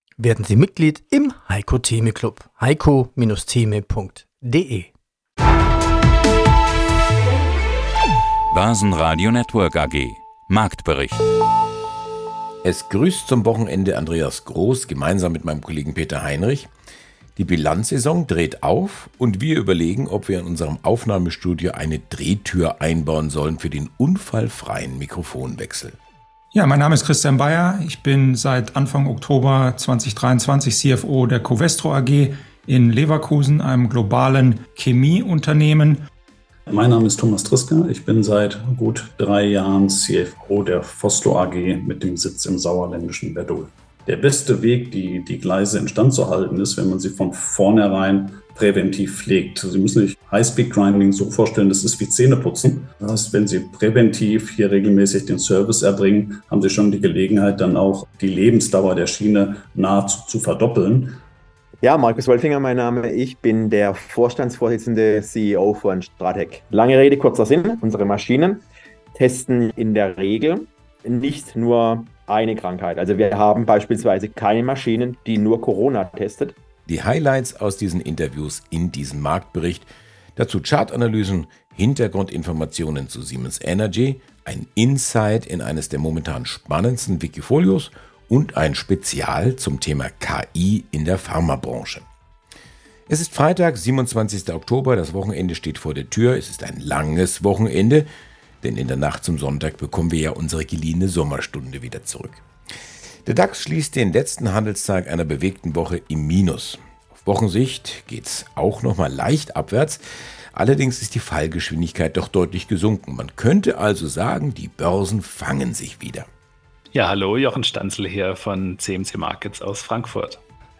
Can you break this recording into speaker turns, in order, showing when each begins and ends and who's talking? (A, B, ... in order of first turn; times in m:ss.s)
0:00.2-0:04.9 A
0:08.5-0:11.3 B
0:12.6-0:16.7 C
0:17.4-0:26.0 C
0:26.5-0:36.0 D
0:36.7-1:01.2 E
1:01.8-1:08.6 F
1:09.2-1:16.6 F
1:16.8-1:32.1 C
1:33.1-1:38.1 C
1:38.6-1:42.4 C
1:43.2-1:50.0 C
1:50.5-1:56.3 C
1:56.9-2:00.4 G